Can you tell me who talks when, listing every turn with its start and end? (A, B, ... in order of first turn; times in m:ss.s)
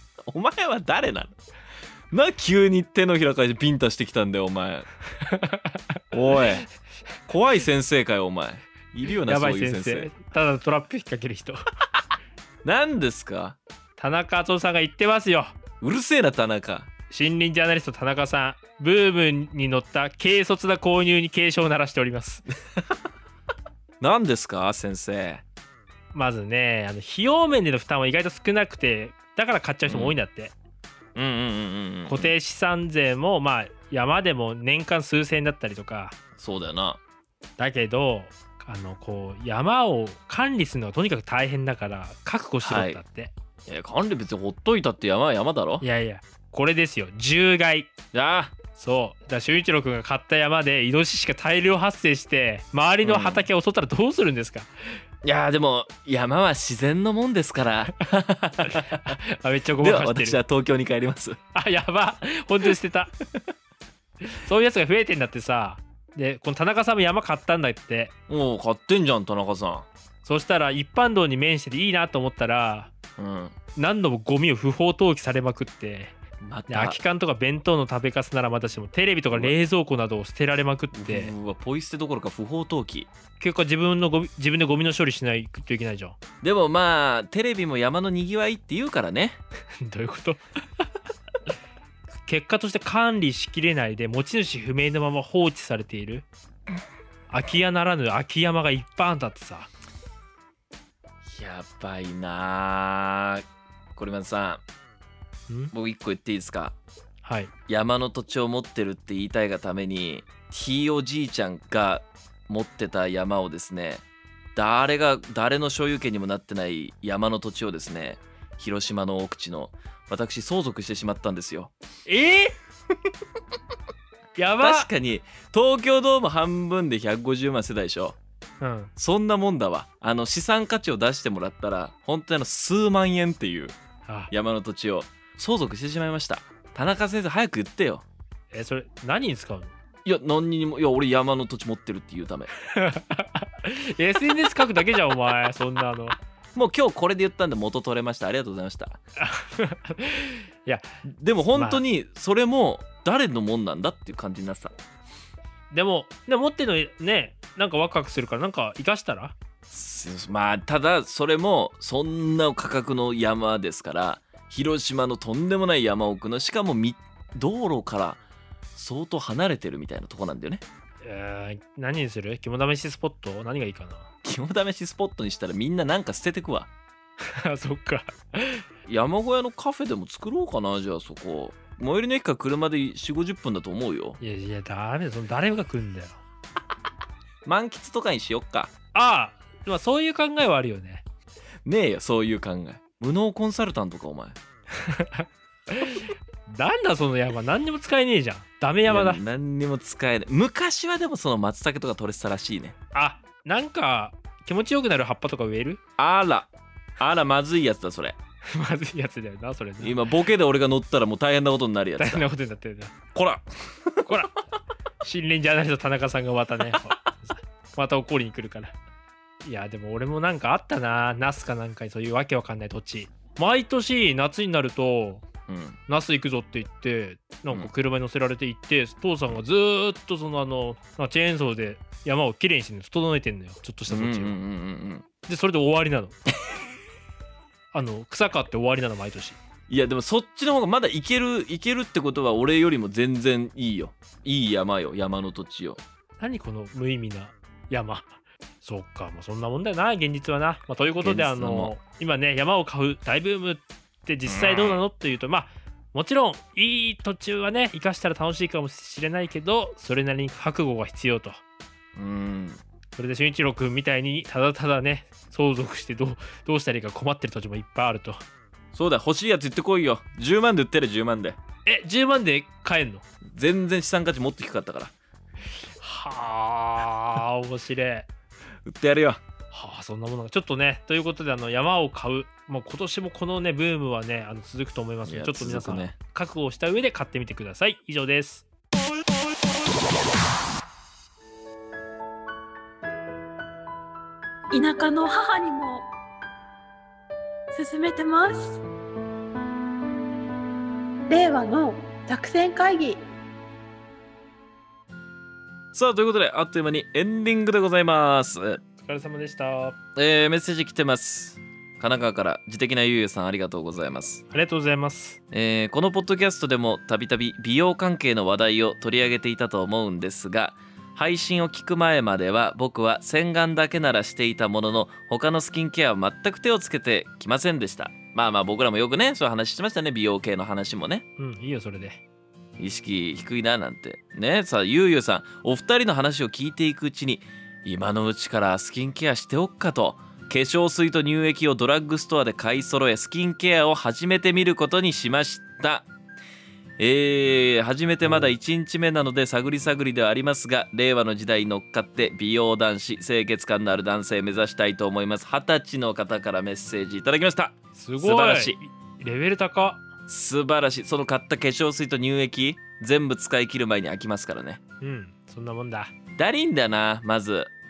0:00.2-0:01.3 A
0:02.1-0:04.9 A
0:05.2-0:06.5 B
0:06.1-0:06.7 A
0:07.3-0:10.1 A
0:09.3-0:11.6 B
0:12.6-0:13.6 A
0:14.0-0:15.5 B
0:15.8-0:16.9 A
0:17.1-0:22.4 B
0:24.0-0:25.4 A
0:26.1-0:30.5 B
0:29.8-0:30.2 A
0:31.1-0:32.3 A
0:32.1-0:36.2 B
0:36.4-0:37.0 A
0:37.6-0:43.3 B
0:42.6-0:43.0 A
0:43.6-0:45.8 A
0:45.8-0:47.9 B
0:48.1-0:48.6 A
0:48.7-0:55.0 B
0:53.0-0:53.4 A
0:55.2-0:59.2 A
0:58.7-1:00.4 B
0:59.8-1:01.4 A
1:01.5-1:03.1 B
1:04.2-1:08.1 B
1:08.3-1:09.9 A
1:10.2-1:12.9 B
1:13.2-1:13.5 A
1:13.8-1:21.3 B
1:16.4-1:17.0 A
1:20.9-1:23.1 A
1:23.4-1:26.2 B
1:26.4-1:29.4 A
1:29.8-1:30.4 B
1:32.2-1:36.2 B
1:37.3-1:39.7 B
1:41.2-1:44.6 A
1:45.7-1:46.7 A
1:47.2-1:47.5 B
1:47.7-1:54.0 A
1:54.5-2:01.7 A
2:02.1-2:02.6 B
2:04.4-2:04.9 B
2:04.6-2:08.2 A
2:08.6-2:08.9 B
2:09.0-2:13.8 A
2:14.0-2:14.3 B
2:14.3-2:18.0 A
2:18.5-2:19.7 B
2:20.0-2:22.5 A
2:22.6-2:26.2 B
2:26.5-2:29.0 A
2:29.2-2:30.9 B
2:31.0-2:34.7 A
2:31.5-2:31.8 B
2:35.7-2:39.4 B
2:39.7-2:48.2 A
2:48.7-2:50.6 A
2:51.0-2:54.1 B
2:54.2-2:56.7 A
2:57.2-2:58.6 B
2:58.8-3:04.2 A
3:04.2-3:06.2 B
3:07.4-3:08.7 A
3:08.9-3:11.0 B
3:11.6-3:14.4 A
3:14.7-3:19.2 B
3:18.9-3:22.8 A
3:22.9-3:25.8 B
3:26.0-3:28.2 A
3:28.5-3:30.0 B
3:29.8-3:32.2 A
3:32.0-3:33.0 B
3:33.1-3:34.3 A
3:34.0-3:34.3 B
3:35.0-3:38.7 B
3:39.4-3:45.2 B
3:45.5-3:45.8 A
3:45.9-3:54.4 B
3:53.9-3:55.0 A
3:55.2-3:56.2 B
3:57.7-3:59.4 B
3:59.7-4:05.8 A
4:06.2-4:21.4 B
4:11.0-4:11.7 A
4:14.2-4:14.8 A
4:22.0-4:22.6 A
4:23.0-4:28.2 B
4:28.7-4:31.4 A
4:31.6-4:33.0 B
4:33.3-4:34.9 A
4:35.8-4:38.1 B
4:38.6-4:39.2 A
4:39.5-4:48.4 B
4:45.0-4:45.9 A
4:54.5-4:55.9 C
4:57.5-4:58.6 C
5:01.1-5:03.0 C
5:05.7-5:08.6 A
5:08.8-5:09.8 B
5:10.0-5:14.2 A
5:14.3-5:15.2 B
5:15.3-5:31.0 A
5:31.2-5:32.0 B
5:32.6-5:45.9 A
5:46.8-5:58.6 A
5:48.0-5:48.3 B
5:57.7-5:59.8 B
6:00.1-6:04.6 A
6:04.8-6:05.9 B
6:06.2-6:07.5 A